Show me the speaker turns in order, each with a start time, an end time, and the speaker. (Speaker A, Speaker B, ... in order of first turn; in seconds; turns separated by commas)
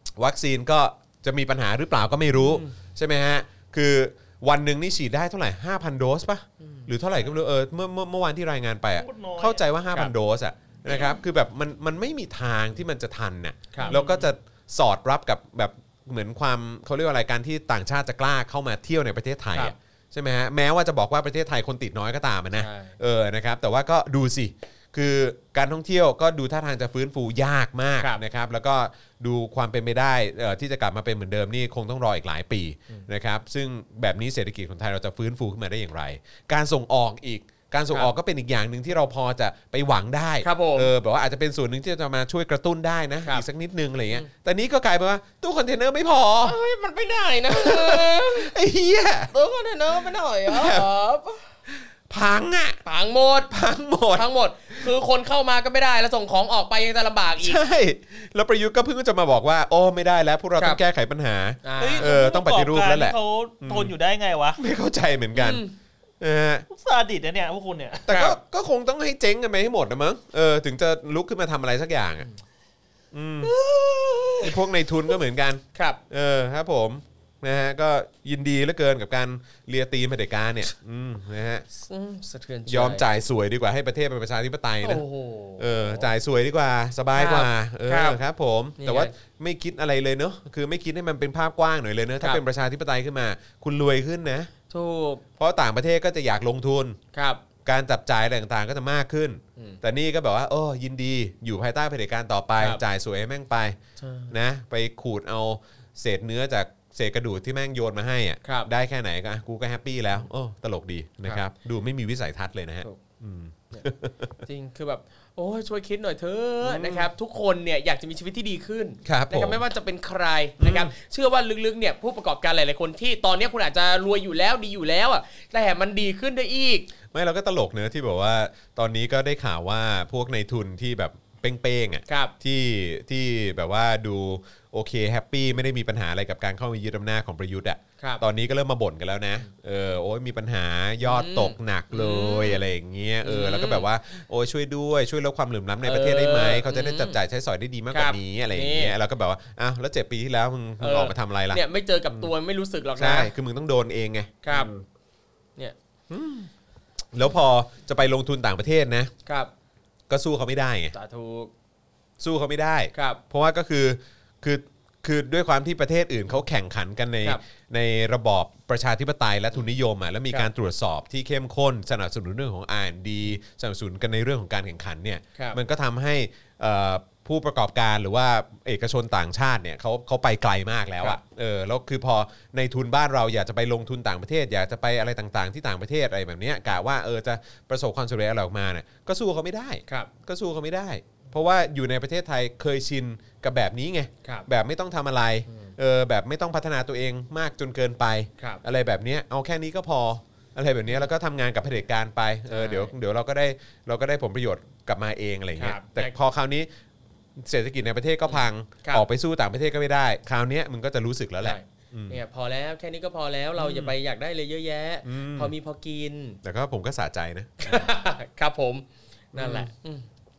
Speaker A: 0.2-46.5, Speaker B: 2.3-2.7, Speaker B: 6.6-6.9, Speaker C: 9.0-9.6, Speaker B: 10.9-11.1, Speaker B: 13.7-14.2, Speaker B: 22.6-23.0, Speaker B: 40.4-40.9, Speaker B: 46.4-48.5, Speaker A: 47.5-49.3, Speaker B: 49.3-51.5, Speaker A: 50.5-50.9, Speaker A: 51.7-52.8, Speaker B: 52.8-53.5, Speaker A: 53.5-54.9, Speaker B: 54.1-57.6, Speaker A: 57.4-63.9, Speaker B: 61.6-62.1, Speaker C: 61.8-64.6, Speaker A: 64.6-65.6, Speaker B: 65.3-65.7, Speaker A: 66.2-66.6, Speaker C: 66.7-68.1, Speaker A: 68.1-72.3, Speaker B: 68.1-68.4, Speaker A: 73.1-73.5, Speaker C: 73.6-74.5, Speaker A: 74.4-81.7, Speaker B: 75.7-76.0, Speaker B: 81.8-83.0, Speaker A: 82.7-85.0, Speaker B: 84.8-86.1, Speaker A: 85.6-94.5, Speaker B: 87.1-88.2, Speaker B: 88.8-89.1, Speaker B: 94.7-95.2, Speaker A: 95.4-97.0, Speaker B: 97.1-97.4, Speaker A: 97.6-103.8, Speaker B: 104.0-104.3, Speaker A: 104.3-114.3, Speaker B: 108.4-108.7, Speaker B: 114.4-126.9, Speaker A: 116.6-117.1, Speaker A: 119.0-119.6, Speaker A: 120.6-120.9, Speaker A: 127.1-152.3, Speaker B: 132.1-132.3, Speaker B: 141.0-142.7, Speaker B: 143.2-143.8, Speaker B: 145.8-147.2, Speaker B: 147.9-148.9, Speaker B: 150.8-153.3, Speaker A: 153.0-154.8, Speaker B: 154.4-154.7, Speaker A: 156.1-156.5, Speaker A: 157.1-159.1, Speaker B: 159.2-159.5, Speaker A: 160.1-160.9, Speaker B: 160.9-161.5, Speaker A: 162.2-206.7, Speaker B: 162.9-163.2, Speaker B: 195.5-195.7, Speaker B: 202.5-202.9, Speaker B: 205.6-206.1, Speaker A: 207.4-212.2, Speaker B: 208.3-209.0, Speaker B: 211.4-216.4, Speaker A: 213.6-213.9, Speaker A: 215.0-215.5, Speaker A: 216.4-217.9, Speaker B: 217.6-220.1, Speaker A: 219.3-219.7